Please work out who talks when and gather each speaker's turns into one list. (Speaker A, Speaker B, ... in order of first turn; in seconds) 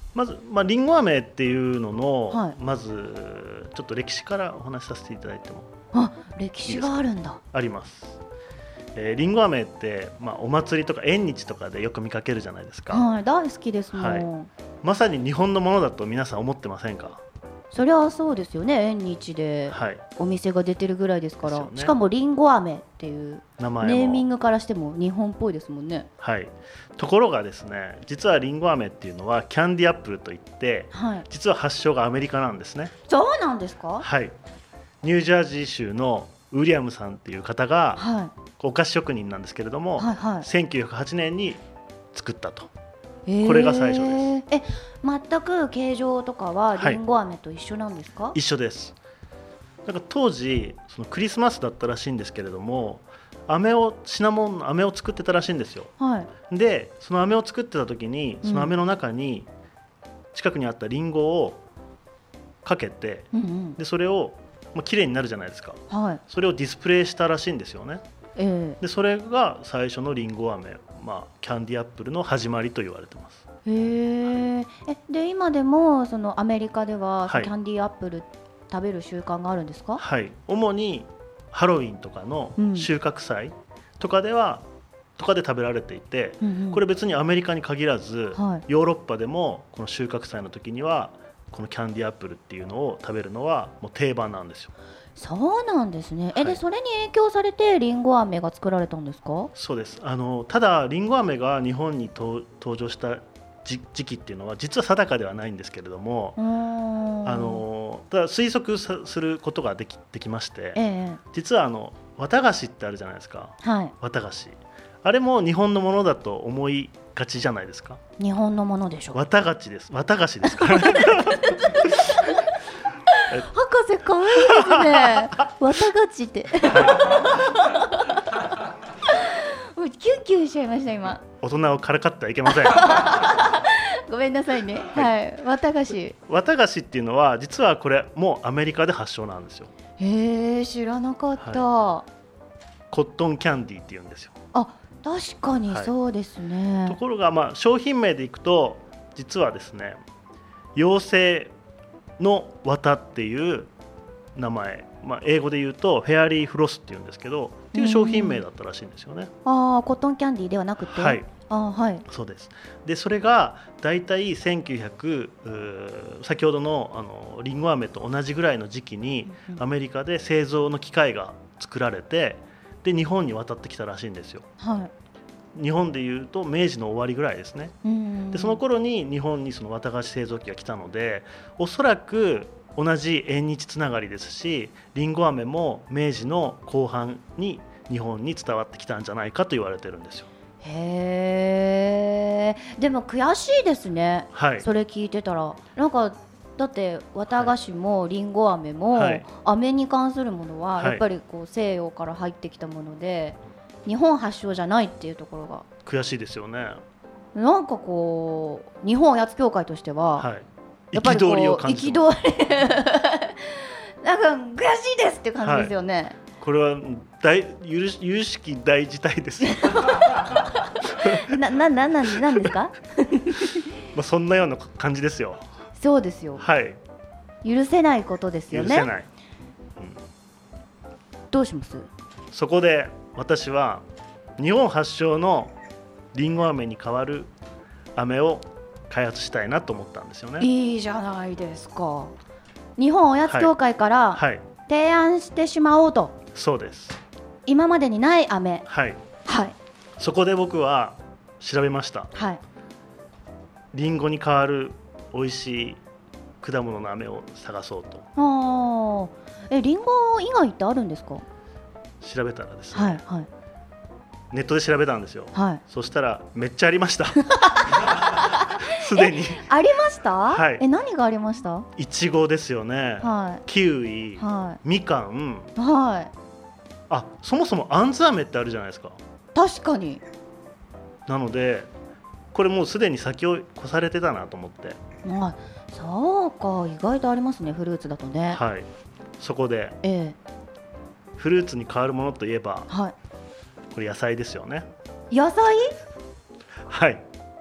Speaker A: 0.1-5.7, 6.6-8.2, 8.9-13.1, 13.9-14.3, 14.8-17.2, 19.7-20.0, 21.4-21.9, 23.6-24.3, 26.2-32.9, 34.0-34.3, 35.0-38.0, 38.6-41.6, 42.1-42.7, 43.4-44.3, 46.8-47.0, 48.3-49.0, 49.8-59.5, 60.3-61.6, 62.6-68.0, 68.8-73.4, 77.3-77.5, 80.0-84.7, 85.2-94.7, 99.5-106.4, 107.2-110.8, 111.3-118.0, 119.1-122.2, 124.3-125.3, 126.7-127.3, 131.4-133.2, 136.3-139.7, 141.4-141.6, 142.9-144.3, 145.7-145.9, 146.8-150.0, 150.7-151.5, 152.2-153.7, 154.3-159.3, 160.8-161.3, 162.1-174.5, 175.5-177.8, 178.3-190.3, 194.3-194.7, 197.3-197.5, 198.9-199.2, 200.8-201.0, 205.8-206.8, 210.2-212.1, 215.4-215.7, 216.4-221.3, 223.8-225.4, 226.4-226.8, 228.5-229.1, 232.3-233.8, 234.4-235.5, 236.1-237.3, 237.9-240.5, 243.3-243.5, 244.1-244.4, 246.3-247.0, 248.7-249.0, 250.0-252.1, 253.7-255.8, 256.4-258.1, 262.0-263.0, 264.3-269.5, 270.3-270.6, 271.8-275.5, 276.9-279.0, 281.1-281.7, 282.3-284.8, 288.3-288.7, 289.2-289.8, 291.2-292.7, 293.7-294.7, 296.7-297.0
Speaker B: 2.3-2.5, 5.9-7.4, 12.9-14.5, 17.7-26.1, 30.9-31.2, 33.1-34.0, 38.0-38.3, 40.0-40.5, 43.3-48.4, 56.0-56.3, 58.4-58.7, 63.3-63.8, 65.9-66.2, 68.4-68.8, 73.7-80.0, 82.6-82.9, 86.4-86.8, 88.3-88.6, 95.2-99.5, 106.4-107.6, 110.7-111.2, 113.6-113.9, 118.2-119.2, 120.6-121.9, 123.1-128.2, 129.1-131.2, 132.6-136.2, 140.0-142.1, 144.5-147.0, 157.7-158.4, 159.4-162.0, 169.3-169.6, 174.6-174.9, 177.8-178.6, 190.6-205.6, 207.3-210.3, 210.9-216.2, 219.6-220.0, 221.0-223.6, 225.8-226.4, 227.4-228.9, 231.3-231.9, 240.4-242.1, 242.8-246.2, 247.4-248.7, 249.2-249.5, 252.1-252.4, 258.1-261.2, 262.7-263.3, 265.3-265.6, 267.4-271.7, 273.0-273.4, 274.2-274.6, 275.6-276.1, 279.3-280.0, 285.0-288.4, 289.8-290.1, 292.7-292.9, 295.1-295.7